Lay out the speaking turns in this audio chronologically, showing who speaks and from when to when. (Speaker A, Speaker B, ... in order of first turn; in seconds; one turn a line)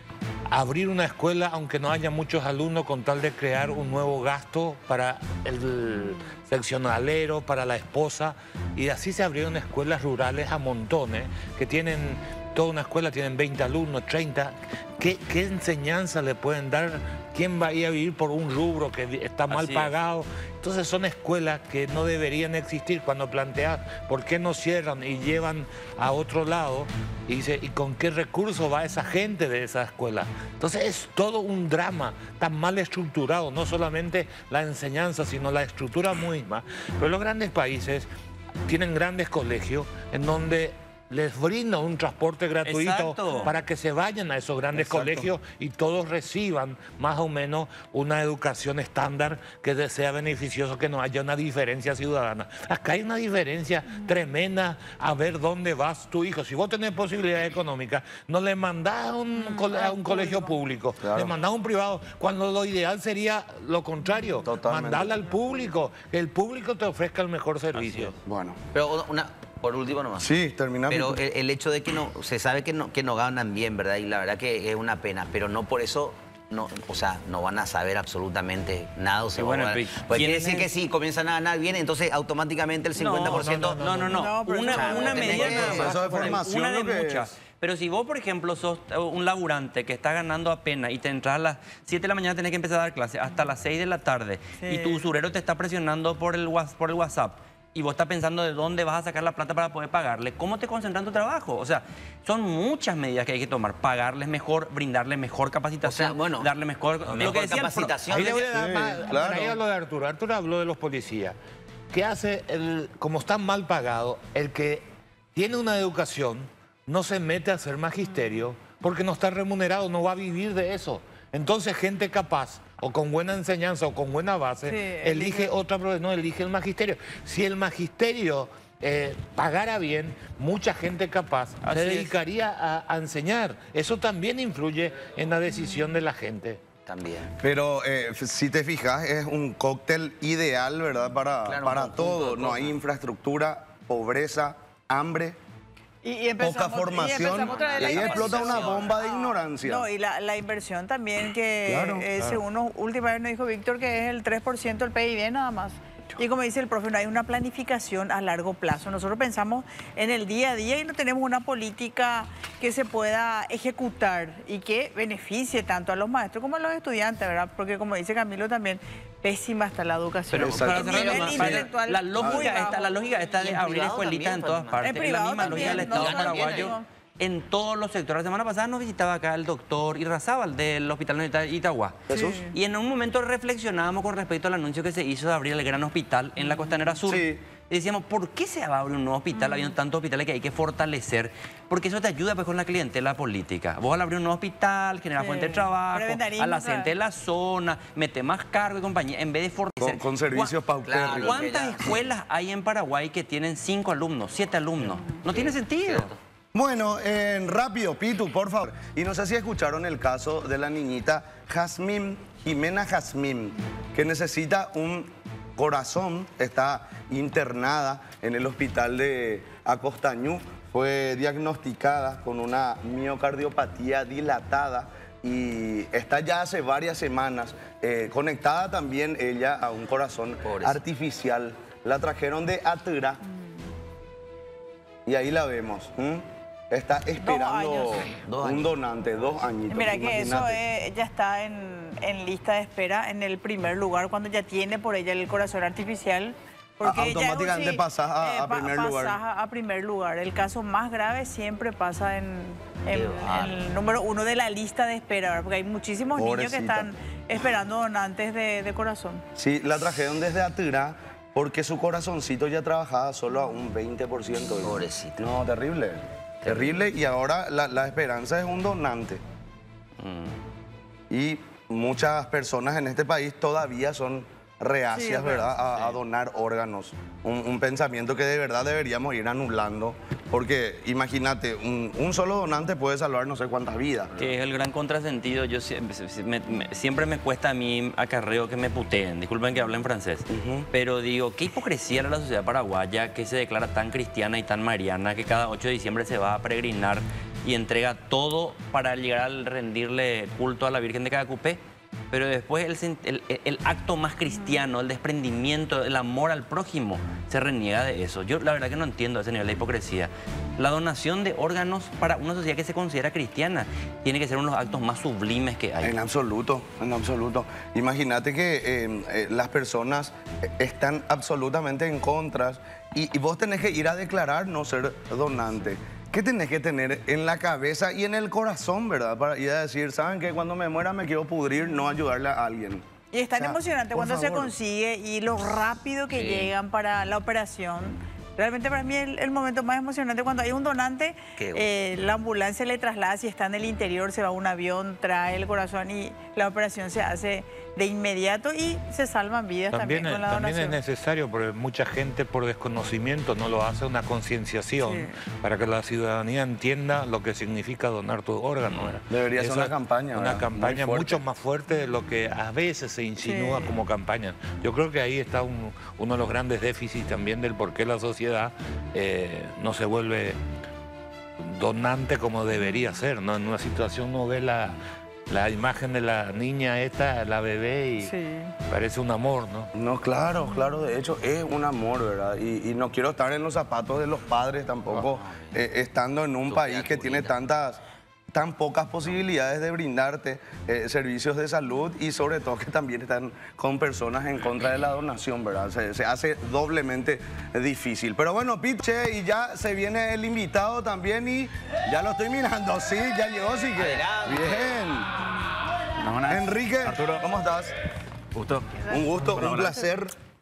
Speaker A: 0.5-38.1
Speaker B: 19.5-19.9
Speaker A: 38.7-68.2
Speaker B: 42.6-43.5
Speaker C: 44.7-45.3
Speaker D: 59.7-60.5
Speaker C: 61.0-61.4
Speaker C: 64.5-65.2
Speaker B: 67.8-68.1
Speaker C: 68.2-68.6
Speaker E: 68.7-70.3
Speaker C: 70.2-71.2
Speaker E: 70.9-83.8
Speaker B: 79.4-80.7
Speaker B: 83.0-108.4
Speaker A: 83.2-84.4
Speaker D: 84.1-86.4
Speaker E: 84.7-85.9
Speaker A: 85.2-85.8
Speaker C: 85.6-87.3
Speaker D: 94.6-95.0
Speaker E: 105.8-106.5
Speaker E: 107.1-108.9
Speaker A: 108.1-111.4
Speaker C: 108.1-109.6
Speaker A: 111.9-136.6
Speaker D: 124.7-125.5
Speaker B: 131.6-132.2
Speaker E: 136.9-137.3
Speaker C: 137.4-145.4
Speaker E: 141.5-142.8
Speaker D: 146.0-172.9
Speaker C: 146.4-149.9
Speaker E: 147.2-149.0
Speaker C: 151.7-152.1
Speaker B: 170.3-206.2
Speaker C: 170.4-171.3
Speaker E: 170.4-171.7
Speaker C: 172.2-172.6
Speaker E: 173.4-176.7
Speaker D: 174.8-176.9
Speaker C: 182.1-182.5
Speaker D: 182.1-182.5
Speaker C: 187.1-187.4
Speaker D: 195.2-196.9
Speaker C: 199.8-201.5
Speaker E: 200.8-202.0
Speaker E: 205.3-206.2
Speaker C: 206.5-233.2
Speaker E: 230.4-230.8
Speaker C: 235.1-240.6
Speaker D: 237.2-238.1
Speaker E: 238.3-238.7
Speaker D: 239.7-259.2
Speaker C: 246.8-249.2
Speaker E: 252.9-253.6
Speaker C: 256.2-256.9
Speaker C: 259.4-269.2
Speaker E: 264.6-265.2
Speaker E: 266.4-266.7
Speaker B: 270.0-270.4
Speaker C: 271.1-284.2
Speaker D: 274.9-275.5
Speaker B: 284.2-301.6
Speaker C: 290.3-290.7
Speaker B: 302.1-316.0
Speaker C: 315.8-334.5
Speaker D: 333.1-350.8
Speaker E: 336.1-336.5
Speaker E: 341.4-341.7
Speaker A: 349.7-370.4
Speaker D: 354.8-355.2
Speaker C: 359.1-361.2
Speaker D: 363.2-363.7
Speaker A: 371.4-378.1
Speaker D: 378.0-378.6
Speaker A: 378.7-379.7
Speaker C: 379.7-387.8
Speaker E: 384.9-385.5
Speaker E: 386.5-387.3
Speaker C: 388.3-405.1
Speaker E: 403.8-404.7
Speaker F: 406.0-407.3
Speaker C: 406.3-407.7
Speaker F: 408.4-409.8
Speaker C: 408.9-410.1